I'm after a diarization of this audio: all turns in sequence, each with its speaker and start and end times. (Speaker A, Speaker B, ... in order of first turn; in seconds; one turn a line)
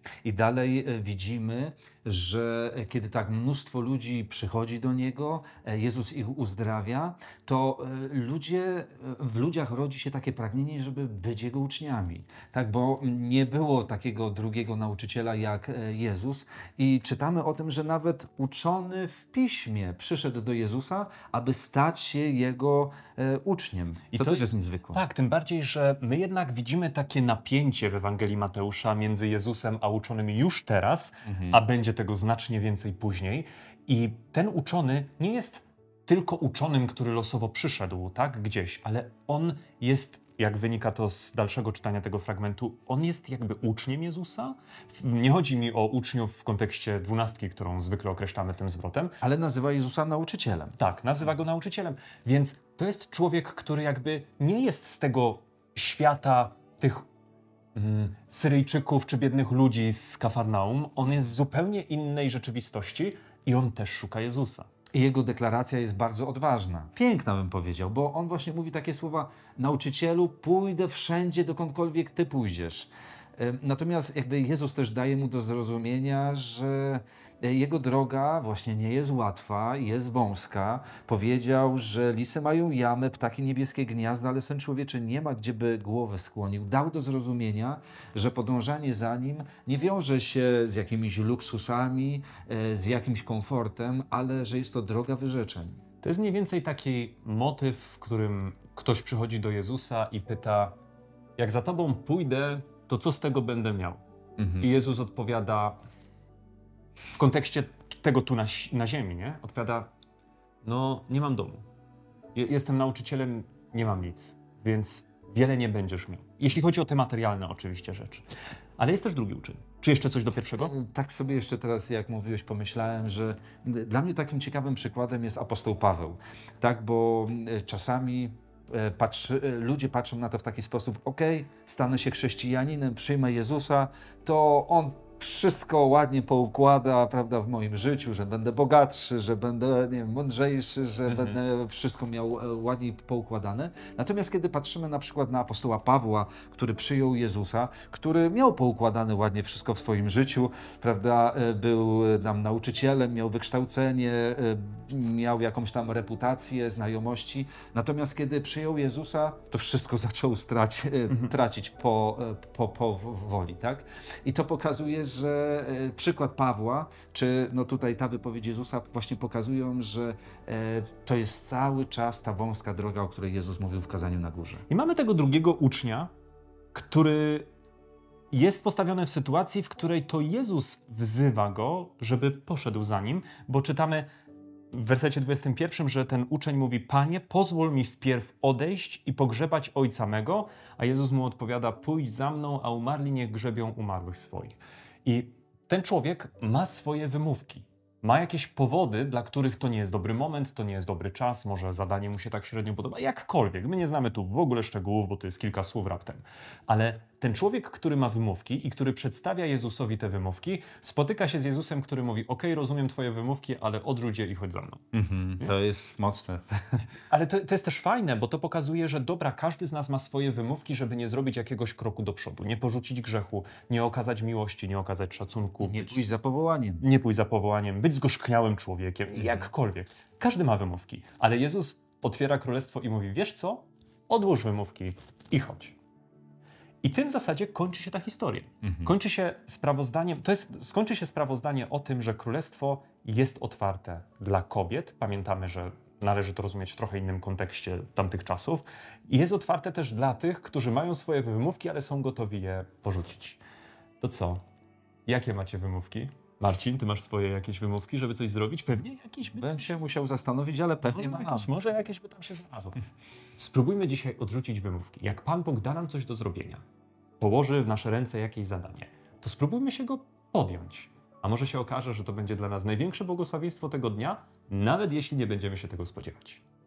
Speaker A: 0.2-25.0
Speaker B: 24.1-49.1
Speaker A: 31.2-31.6
Speaker A: 49.2-50.8
Speaker B: 50.8-57.0
Speaker B: 57.7-64.7
Speaker A: 64.9-95.8
Speaker B: 96.0-100.8
Speaker B: 101.4-104.0
Speaker A: 104.4-104.7
Speaker B: 104.6-105.8
Speaker B: 107.2-109.9
Speaker B: 110.6-111.6
Speaker B: 112.3-118.3
Speaker B: 118.8-120.7
Speaker A: 120.6-174.6
Speaker B: 141.1-141.4
Speaker B: 174.7-176.1
Speaker B: 176.7-177.5
Speaker B: 178.3-184.1
Speaker B: 184.7-214.8
Speaker A: 214.9-216.8
Speaker B: 217.1-226.0
Speaker A: 225.6-226.8
Speaker B: 226.8-235.8
Speaker B: 236.8-253.4
Speaker A: 238.6-238.9
Speaker B: 254.0-254.4
Speaker B: 255.1-259.8
Speaker A: 259.4-261.5
Speaker B: 260.9-262.8
Speaker B: 263.4-266.6
Speaker B: 267.2-276.4